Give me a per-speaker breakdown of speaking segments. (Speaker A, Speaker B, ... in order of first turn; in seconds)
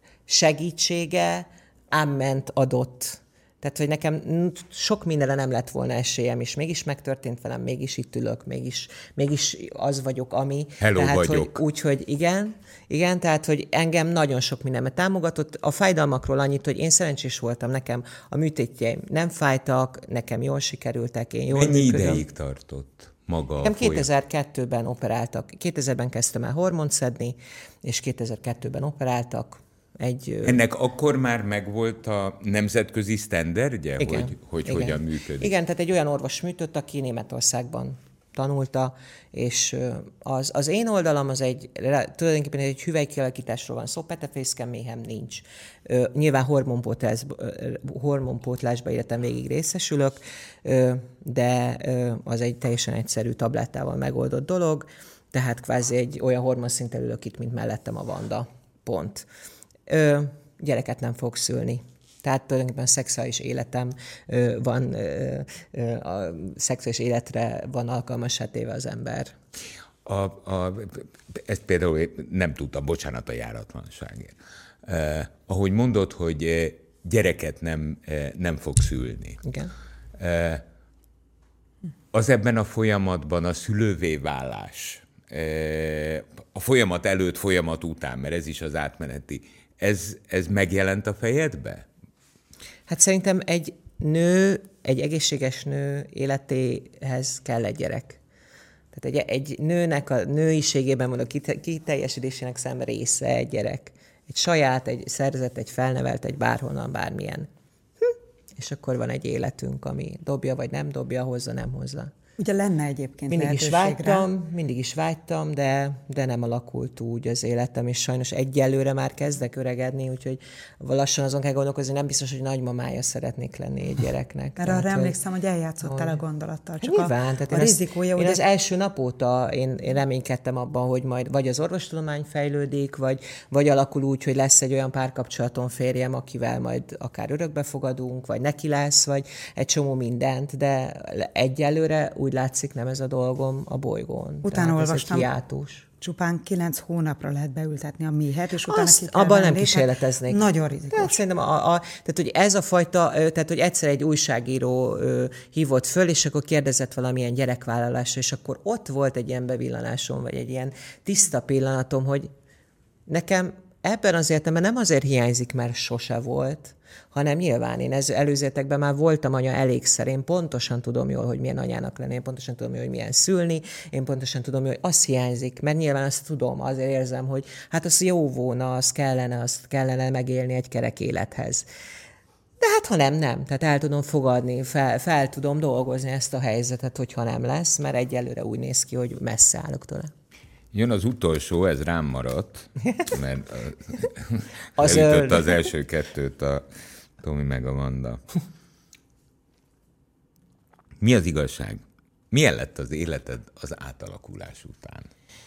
Speaker A: 0.3-22.2, 23.6-30.6, 34.0-59.2, 59.9-69.3, 79.4-79.7, 92.9-98.2, 98.9-107.5, 108.0-112.1, 113.3-125.2, 125.8-126.1, 126.8-145.8, 148.7-162.3, 163.1-181.7, 182.6-190.1, 194.8-195.7
Speaker B: 10.8-11.6, 21.5-24.1, 30.4-35.5, 70.0-79.4, 80.2-80.6, 82.1-91.8, 190.7-196.6, 197.2-198.2, 201.0-205.1
Speaker C: 112.4-114.3, 124.6-128.4, 144.4-145.3, 146.0-151.1